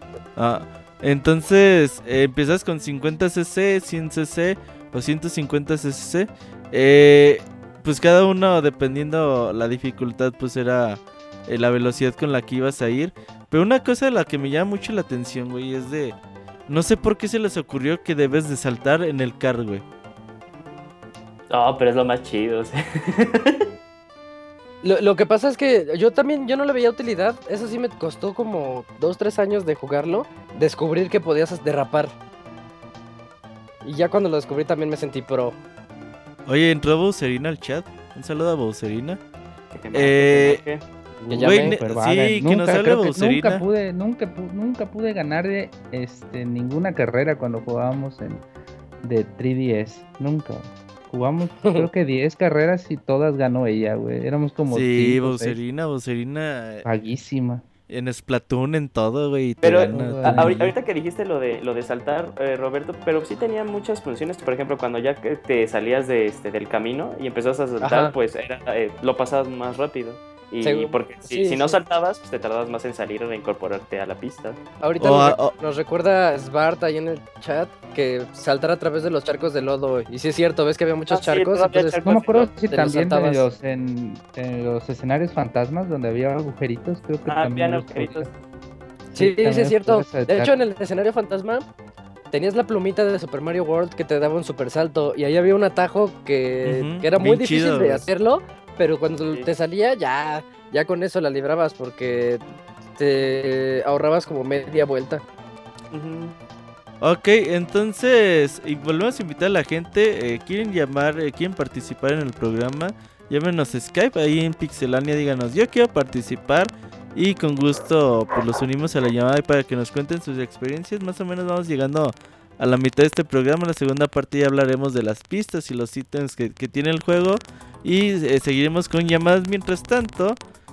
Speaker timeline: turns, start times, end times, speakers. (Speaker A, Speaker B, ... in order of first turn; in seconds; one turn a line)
Speaker A: 0.4-16.2
Speaker A: 16.7-19.8
Speaker B: 21.5-23.7
Speaker C: 24.8-32.1
Speaker C: 33.8-35.6
Speaker A: 36.5-39.2
Speaker B: 39.7-40.8
Speaker A: 39.9-40.6
Speaker D: 41.2-48.4
Speaker A: 41.3-43.6
Speaker C: 41.3-41.8
Speaker D: 49.0-55.6
Speaker C: 51.6-51.9
Speaker A: 54.7-56.9
Speaker D: 56.9-57.6
Speaker A: 57.9-60.8
Speaker B: 59.6-74.6
Speaker D: 59.9-60.6
Speaker C: 67.8-68.1
Speaker C: 70.6-71.8
Speaker C: 74.8-82.0
Speaker A: 75.0-75.5
Speaker B: 81.1-82.5
Speaker D: 82.0-88.3
Speaker C: 82.7-83.5
Speaker B: 87.3-88.3
Speaker D: 89.1-90.5
Speaker C: 89.2-91.7
Speaker C: 92.3-102.4
Speaker A: 96.6-98.0
Speaker C: 103.0-105.2
Speaker B: 105.9-106.3
Speaker A: 107.0-130.4